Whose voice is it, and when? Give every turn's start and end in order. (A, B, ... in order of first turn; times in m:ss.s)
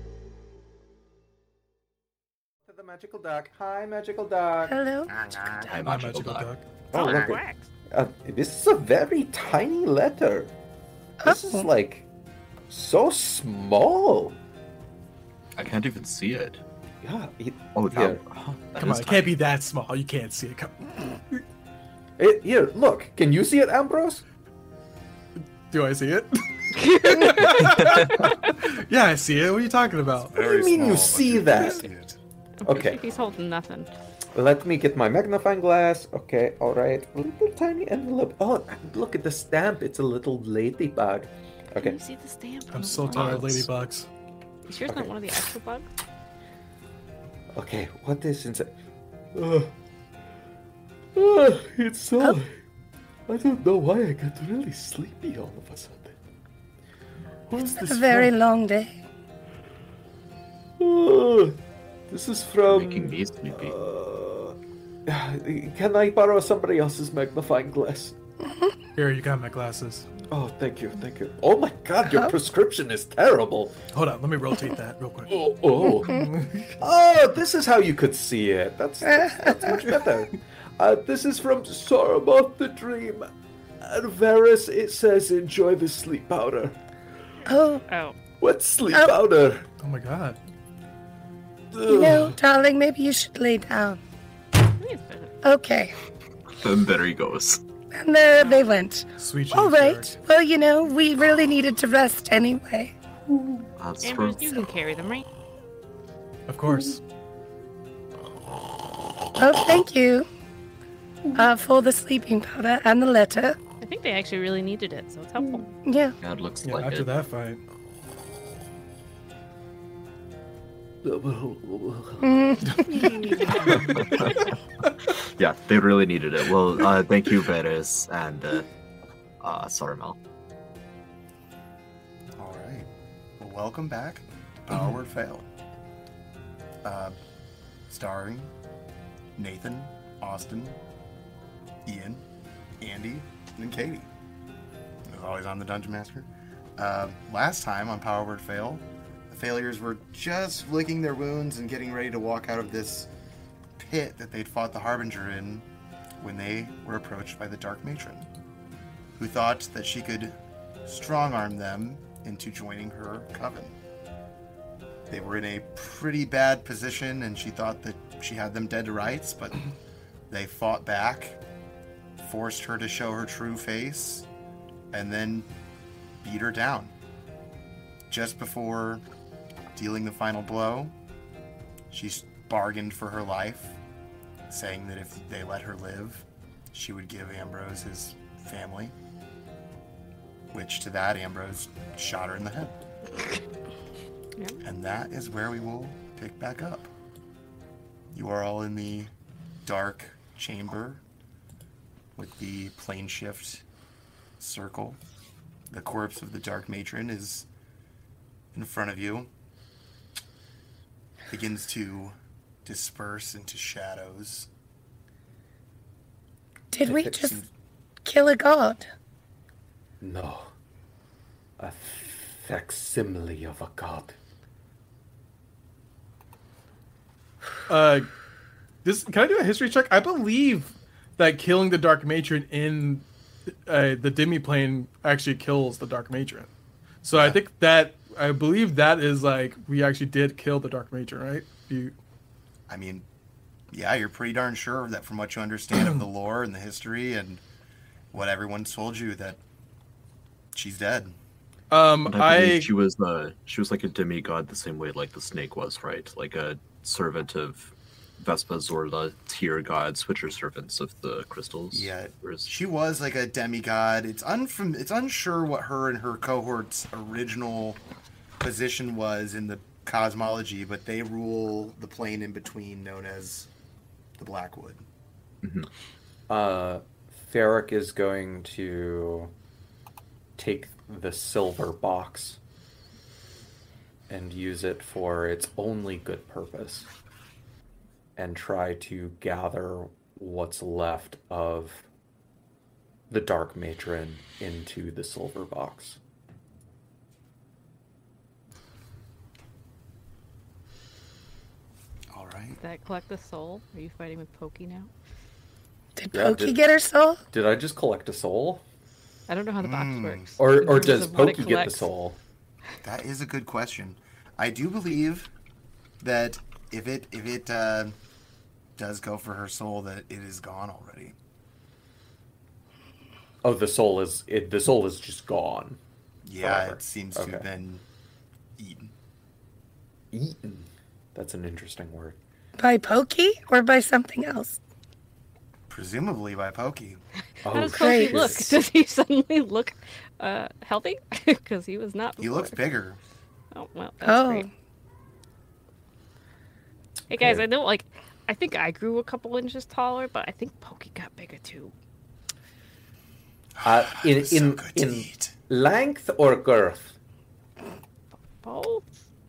0:02.6-0:04.7 A
0:04.7-0:05.7 B
0:05.1-0:05.7 C
0:05.6-0:06.5 D
0:05.8-0:06.6 E
0:06.9-0:10.5 A
0:06.9-0:07.6 F
0:11.2-0:11.6 B
0:11.2-0:12.1 A
0:12.7-0:14.4 A
0:15.6-0:16.6 D
0:17.0-0:18.2 A
0:17.7-0:19.4 D
0:18.8-0:21.4 E
0:22.2-0:24.2 A
0:25.7-0:30.4 E
0:26.8-0:27.5 F
0:27.5-0:28.2 D
0:30.3-0:32.2 C
0:30.4-0:31.8 A
0:32.6-0:33.9 F
0:32.6-0:33.0 A
0:34.3-0:42.0 A
0:41.7-0:43.6 F
0:42.7-0:44.1 E
0:43.1-0:43.7 D
0:44.6-0:45.9 F
0:47.5-0:48.7 A
0:49.3-0:49.7 A
0:51.1-0:52.6 A
0:53.3-0:56.2 A
0:57.5-0:58.3 A
0:57.6-0:59.0 B
1:00.8-1:08.1 A
1:02.6-1:03.7 D
1:09.0-1:10.1 E
1:10.3-1:13.8 A
1:13.9-1:15.3 E
1:15.3-1:23.3 A
1:16.0-1:16.6 E
1:19.0-1:19.7 B
1:23.8-1:26.8 A
1:27.5-1:27.8 B
1:27.9-1:28.1 F
1:28.4-1:29.7 A
1:29.8-1:30.4 E
1:31.7-1:32.4 A
1:31.9-1:34.0 B
1:34.8-1:35.4 F
1:35.4-1:35.9 B
1:36.6-1:37.6 D
1:37.9-1:42.9 B
1:39.2-1:40.2 E
1:43.8-1:44.6 D
1:44.0-1:45.2 F
1:46.5-1:47.0 E
1:49.4-1:50.3 B
1:51.3-1:53.6 B
1:53.8-1:55.7 F
1:55.8-1:56.2 B
1:56.2-1:57.2 D
1:56.6-1:57.6 E
2:01.0-2:02.8 A
2:02.2-2:03.4 B
2:02.8-2:04.0 E
2:04.0-2:04.5 D
2:05.4-2:08.7 D
2:09.4-2:10.2 D
2:12.4-2:15.5 C
2:16.8-2:17.2 C
2:17.9-2:18.5 C
2:19.4-2:20.8 C
2:21.8-2:22.2 C
2:22.8-2:24.1 C
2:25.0-2:33.1 C
2:33.8-2:35.6 C
2:36.2-2:38.3 C
2:39.1-2:43.8 C
2:45.1-2:49.6 C
2:50.3-2:51.4 C
2:52.2-2:54.3 C
2:54.9-2:55.5 C
2:56.2-2:56.9 C
2:58.1-2:59.0 C
2:59.7-3:00.9 C
3:01.9-3:03.8 C
3:04.5-3:08.9 C
3:10.5-3:12.8 C
3:14.6-3:16.9 C
3:18.1-3:19.1 C
3:19.6-3:21.0 C
3:22.2-3:23.6 C
3:24.4-3:25.0 C
3:25.7-3:27.5 C
3:28.5-3:29.3 C
3:31.3-3:34.5 C
3:36.7-3:37.4 B
3:36.8-3:37.4 C
3:36.9-3:37.1 A
3:38.0-3:38.9 B
3:40.0-3:40.5 A
3:41.6-3:44.1 A
3:47.7-3:48.1 E
3:48.8-3:53.1 E
3:53.6-3:56.5 E
3:57.0-4:01.9 E
3:57.1-3:57.4 C
4:02.7-4:03.0 C
4:03.7-4:07.4 C
4:08.1-4:09.4 C
4:10.5-4:11.2 C
4:11.7-4:12.7 E
4:12.0-4:22.5 D
4:21.7-4:27.8 C
4:28.4-4:33.5 C
4:34.2-4:34.8 C
4:36.3-4:39.3 A
4:40.4-4:42.4 A
4:44.1-4:46.9 A
4:48.2-4:51.8 A
4:53.1-4:56.0 A
5:02.1-5:02.6 C
5:02.6-5:04.9 F
5:06.0-5:07.2 B
5:06.1-5:06.6 A
5:07.3-5:08.6 A
5:09.3-5:11.8 F
5:09.6-5:10.4 C
5:10.4-5:12.2 A
5:12.8-5:15.3 C
5:16.0-5:18.0 C
5:18.8-5:21.2 C
5:23.4-5:25.8 A
5:26.2-5:27.8 C
5:26.4-5:27.4 A
5:28.6-5:28.9 C
5:30.1-5:32.2 A
5:32.6-5:34.6 B
5:35.7-5:37.0 C
5:37.4-5:38.6 A
5:37.5-5:42.7 F
5:37.8-5:38.3 B
5:42.2-5:43.0 C
5:43.5-5:44.5 F
5:44.0-5:44.5 B
5:47.1-5:51.7 F
5:47.1-5:47.4 A
5:53.6-5:55.3 C
5:53.6-5:57.0 A
5:58.4-5:58.8 F